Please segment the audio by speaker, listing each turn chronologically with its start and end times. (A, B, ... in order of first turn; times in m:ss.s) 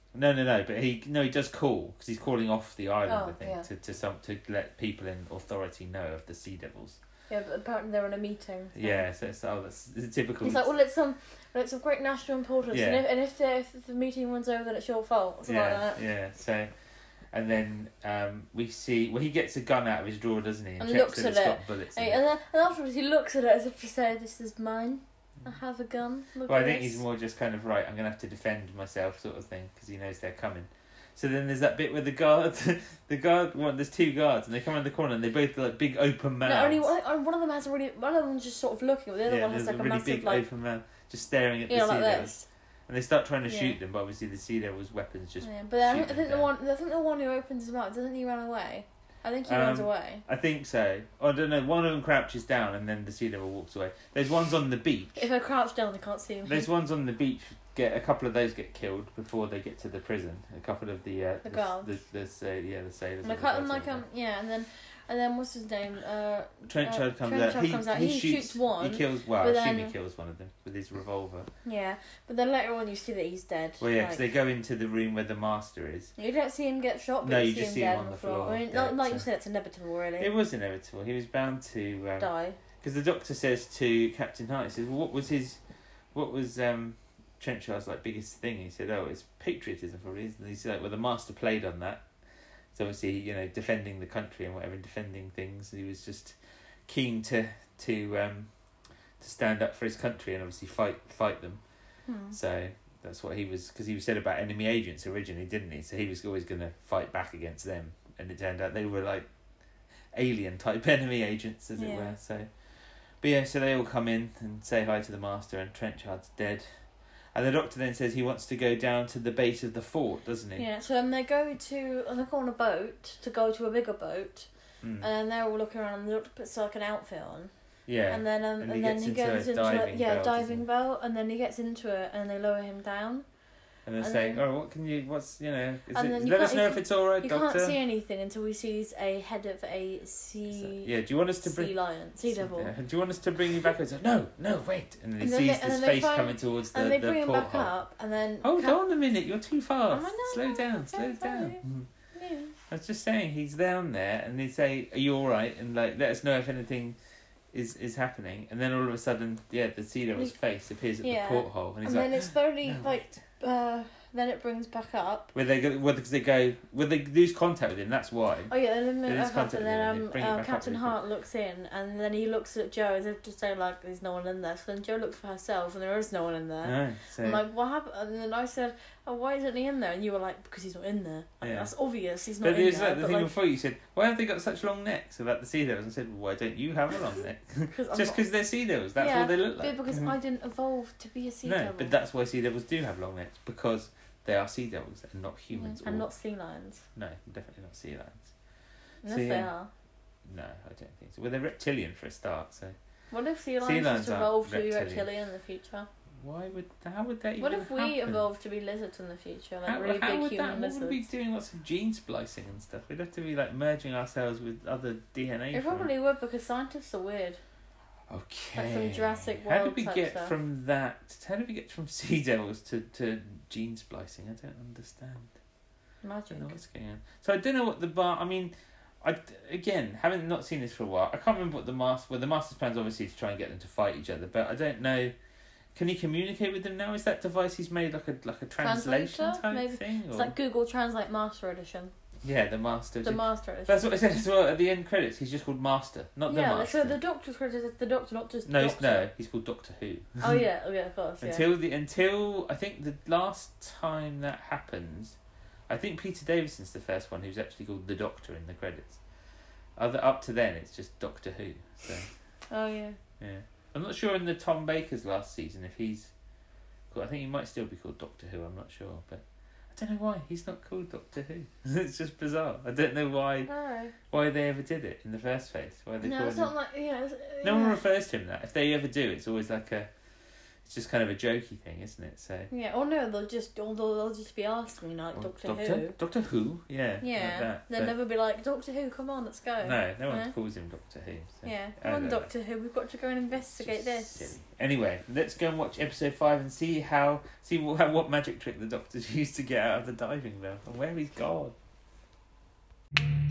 0:00.1-0:07.0 A
0:03.1-0:03.7 B
0:07.3-0:09.0 B
0:08.8-0:10.7 A
0:10.4-0:16.0 B
0:12.7-0:13.0 A
0:15.5-0:16.7 A
0:17.3-0:22.2 A
0:20.8-0:27.0 B
0:26.5-0:36.9 A
0:36.5-0:40.4 B
0:39.2-0:42.4 A
0:41.7-0:42.5 B
0:42.9-0:46.5 A
0:43.5-0:43.8 B
0:45.4-0:50.2 B
0:49.5-0:55.2 A
0:55.2-0:56.7 B
0:56.4-1:04.0 A
1:01.4-1:01.9 B
1:03.2-1:09.9 B
1:06.7-1:11.5 A
1:11.6-1:14.2 B
1:13.8-1:16.1 A
1:16.2-1:20.3 B
1:17.2-1:19.2 A
1:20.2-1:22.3 A
1:22.2-1:22.6 B
1:22.8-1:25.6 A
1:26.1-1:32.0 A
1:32.7-1:36.4 A
1:36.9-1:38.5 A
1:39.2-1:41.6 A
1:42.1-1:42.4 B
1:42.3-1:49.3 A
1:50.1-1:52.5 A
1:51.8-1:52.1 B
1:53.2-1:56.7 A
1:57.3-2:00.7 A
2:00.6-2:04.5 B
2:04.8-2:05.1 A
2:05.0-2:07.5 B
2:07.9-2:10.6 A
2:08.1-2:13.2 B
2:13.9-2:17.8 A
2:14.0-2:14.4 B
2:15.9-2:20.9 B
2:20.5-2:21.7 A
2:21.4-2:22.7 B
2:22.2-2:27.7 A
2:25.2-2:28.8 B
2:28.4-2:31.9 A
2:29.9-2:31.6 B
2:32.1-2:32.5 B
2:32.7-2:37.0 A
2:37.5-2:43.2 A
2:41.0-2:45.3 B
2:45.3-2:48.5 A
2:48.5-3:03.3 B
2:49.0-2:51.0 A
2:56.6-2:57.4 A
3:01.4-3:01.7 A
3:02.4-3:10.2 A
3:07.7-3:08.2 B
3:09.0-3:11.9 B
3:11.4-3:16.1 A
3:15.6-3:16.8 B
3:17.0-3:18.3 A
3:19.0-3:19.7 B
3:19.1-3:19.5 A
3:20.2-3:22.8 A
3:23.1-3:25.9 B
3:23.6-3:25.1 A
3:26.2-3:28.2 A
3:27.4-3:31.0 B
3:29.6-3:35.9 A
3:35.5-3:37.4 B
3:38.1-3:45.3 A
3:38.6-3:40.3 B
3:46.0-3:46.6 B
3:46.3-3:55.1 A
3:55.8-4:00.3 A
3:58.6-4:01.9 B
4:02.2-4:07.0 A
4:03.0-4:03.9 B
4:06.3-4:09.1 B
4:08.5-4:10.4 A
4:10.2-4:11.4 B
4:11.2-4:15.2 A
4:15.7-4:19.0 A
4:19.8-4:22.1 A
4:22.5-4:23.0 B
4:23.2-4:26.1 A
4:26.9-4:33.5 A
4:33.4-4:33.9 B
4:34.1-4:36.5 A
4:36.0-4:37.8 B
4:37.4-4:39.9 A
4:40.6-4:42.5 A
4:42.5-4:46.0 B
4:45.1-4:47.9 A
4:47.0-4:50.3 B
4:49.6-4:52.3 A
4:51.4-4:54.4 B
4:53.5-5:01.6 A